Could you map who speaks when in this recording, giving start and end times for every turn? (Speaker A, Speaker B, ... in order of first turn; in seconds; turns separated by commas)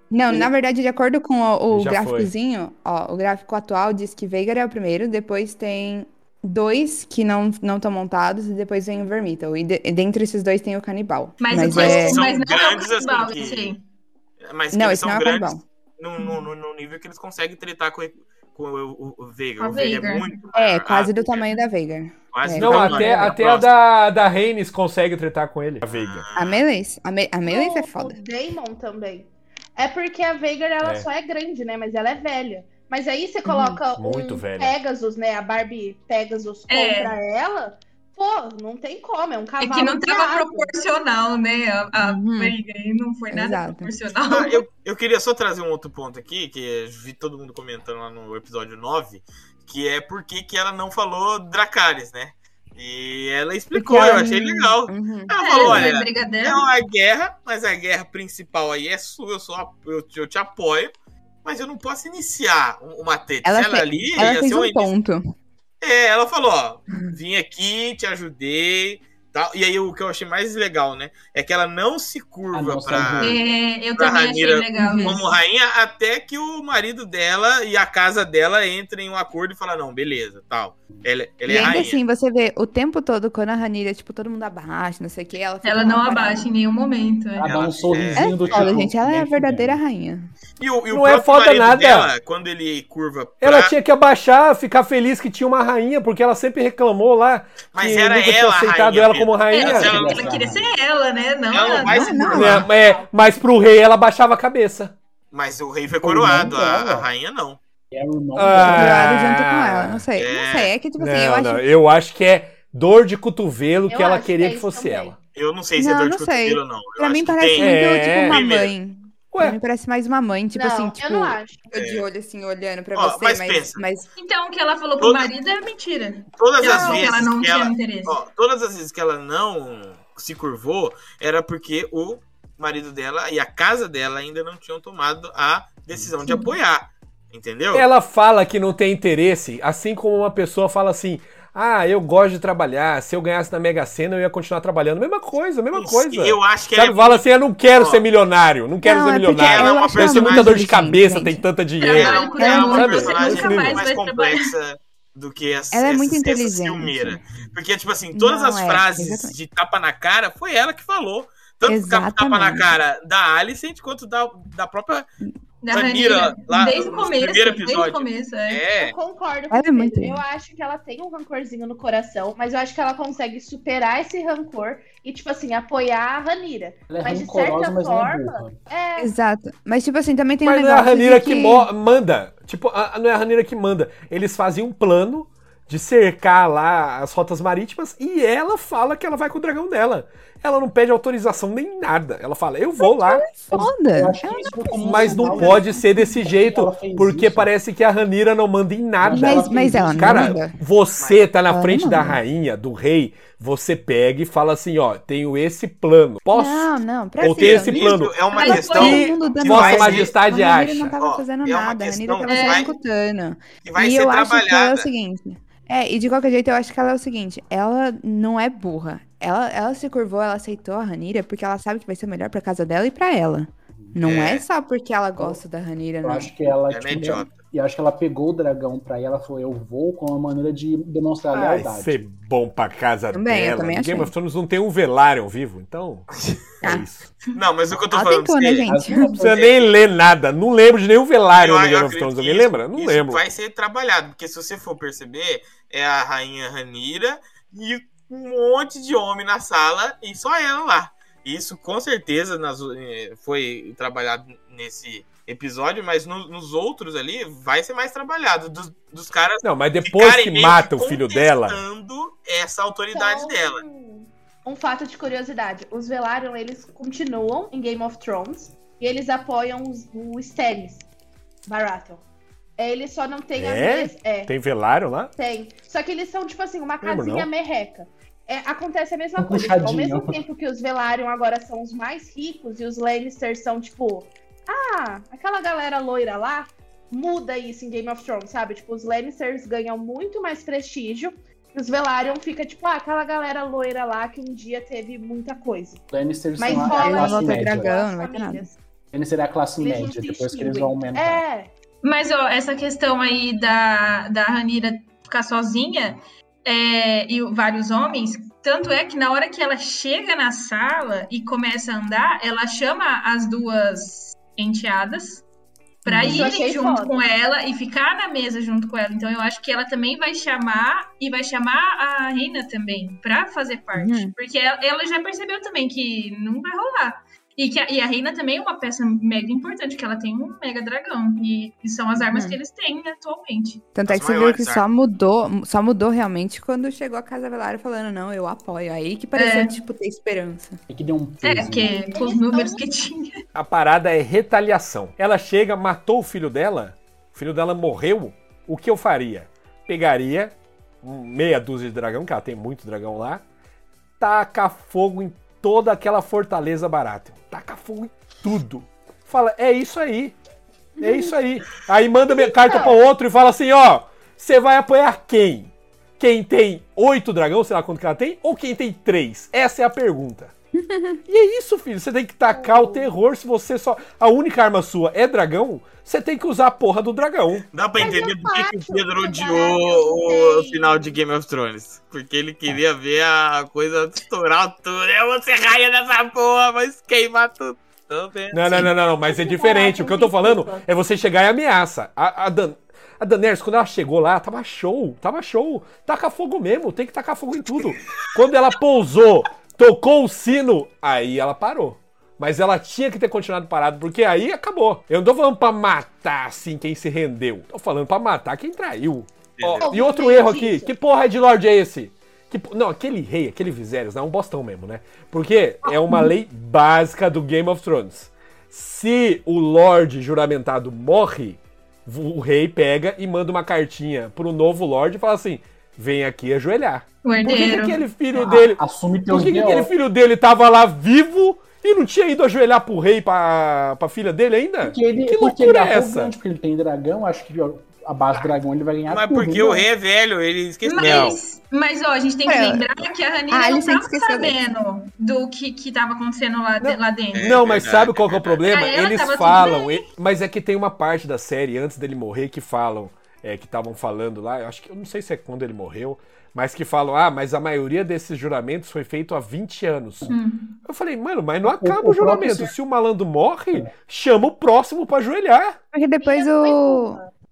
Speaker A: 0.1-12.2, Speaker B: 1.7-2.3, Speaker C: 11.4-13.8, Speaker D: 11.6-13.8, Speaker D: 14.4-21.5, Speaker A: 14.7-15.7, Speaker C: 19.6-20.3, Speaker A: 20.6-23.4, Speaker D: 22.3-23.7, Speaker B: 22.6-26.3, Speaker D: 25.9-26.6, Speaker A: 26.4-28.2, Speaker E: 27.5-40.7, Speaker B: 30.8-31.1, Speaker A: 33.5-33.8, Speaker B: 34.0-34.8, Speaker C: 36.7-37.1, Speaker C: 39.6-44.6, Speaker A: 42.0-42.6, Speaker A: 43.3-43.9, Speaker D: 44.3-60.9, Speaker A: 53.7-55.8, Speaker C: 55.4-56.7, Speaker D: 61.5-64.9, Speaker A: 63.4-65.2, Speaker D: 65.8-73.4, Speaker F: 72.5-73.5, Speaker C: 73.2-75.2, Speaker D: 74.0-82.0, Speaker A: 74.8-75.2, Speaker A: 81.4-86.5, Speaker C: 85.6-87.5, Speaker F: 87.4-89.8, Speaker D: 87.4-88.7, Speaker A: 88.2-90.3, Speaker D: 90.6-93.8, Speaker B: 90.9-92.1, Speaker B: 93.4-99.9, Speaker D: 97.7-100.6, Speaker C: 99.5-102.5, Speaker F: 99.7-100.8, Speaker D: 101.5-102.7, Speaker A: 101.7-102.7, Speaker B: 102.3-105.0, Speaker E: 102.5-103.3, Speaker D: 105.3-107.6, Speaker F: 106.0-107.1, Speaker F: 107.9-109.1, Speaker B: 108.3-110.1, Speaker A: 108.6-111.7, Speaker D: 110.2-110.8, Speaker B: 111.0-115.2, Speaker E: 113.9-115.2, Speaker D: 115.3-118.7, Speaker A: 115.8-124.1, Speaker B: 117.6-118.4, Speaker B: 119.3-119.6, Speaker E: 120.5-121.6, Speaker D: 121.7-122.1, Speaker D: 122.9-123.8, Speaker C: 124.2-128.2, Speaker D: 125.0-125.3, Speaker D: 126.4-137.9, Speaker E: 126.6-127.0, Speaker C: 136.2-136.5, Speaker B: 137.7-153.8, Speaker D: 145.7-148.0, Speaker A: 148.8-151.5, Speaker D: 149.3-150.6, Speaker C: 151.8-154.4, Speaker D: 151.9-165.1, Speaker A: 152.4-153.2, Speaker A: 155.7-157.2, Speaker A: 158.1-159.4, Speaker A: 161.7-162.7, Speaker C: 165.6-168.6, Speaker D: 165.7-168.9, Speaker E: 168.8-179.1, Speaker A: 169.5-170.2, Speaker F: 176.9-178.6, Speaker A: 179.0-181.7, Speaker B: 180.4-193.2, Speaker A: 192.8-196.2, Speaker F: 193.5-197.5, Speaker B: 194.8-211.0, Speaker F: 199.0-200.4, Speaker A: 199.1-200.6, Speaker D: 201.0-201.3, Speaker A: 201.5-202.2, Speaker A: 206.3-226.3, Speaker D: 207.3-210.1, Speaker C: 208.3-209.2, Speaker D: 211.0-212.7, Speaker C: 212.3-212.7, Speaker D: 213.6-214.9, Speaker D: 224.0-224.5, Speaker F: 226.0-232.0, Speaker D: 226.7-227.3, Speaker B: 231.3-236.1, Speaker A: 233.1-234.1, Speaker A: 236.6-236.9, Speaker B: 236.6-237.1, Speaker D: 237.3-238.7, Speaker A: 237.9-239.2, Speaker F: 238.7-239.4, Speaker B: 239.2-243.2, Speaker D: 239.3-239.8, Speaker D: 241.3-263.6, Speaker B: 259.4-261.6, Speaker E: 262.9-270.9, Speaker E: 271.5-272.0, Speaker E: 272.6-274.3, Speaker B: 273.4-275.1, Speaker E: 275.2-295.8, Speaker B: 276.8-277.3, Speaker F: 279.2-280.2, Speaker F: 295.9-297.7, Speaker E: 296.4-298.5, Speaker A: 296.5-298.5, Speaker F: 298.9-301.2, Speaker E: 299.6-301.5, Speaker C: 301.8-315.2, Speaker C: 315.9-333.6, Speaker A: 315.9-316.3, Speaker E: 316.1-317.1, Speaker A: 323.7-324.1, Speaker A: 332.0-332.4, Speaker A: 333.8-340.6, Speaker D: 333.9-334.6, Speaker C: 339.1-339.6, Speaker F: 340.7-341.7, Speaker C: 341.2-343.2, Speaker E: 341.6-342.6, Speaker B: 343.4-353.2, Speaker B: 354.0-360.2, Speaker A: 360.8-361.1, Speaker B: 360.8-370.3, Speaker E: 362.1-362.8, Speaker A: 370.6-371.0, Speaker B: 371.1-377.5, Speaker E: 372.3-372.9, Speaker D: 377.5-388.7, Speaker E: 377.8-380.9, Speaker B: 388.3-436.1, Speaker E: 389.1-390.7, Speaker D: 409.4-409.7, Speaker E: 409.6-410.7, Speaker C: 427.0-427.8, Speaker F: 428.1-429.7, Speaker F: 434.6-439.7, Speaker D: 438.9-441.2, Speaker C: 440.6-447.4, Speaker B: 440.8-441.2, Speaker A: 442.3-444.4, Speaker B: 446.6-460.1, Speaker D: 447.1-448.9, Speaker C: 448.5-449.9, Speaker C: 460.1-460.6, Speaker B: 460.7-465.6, Speaker F: 461.4-462.5, Speaker A: 465.7-467.0, Speaker E: 466.0-467.1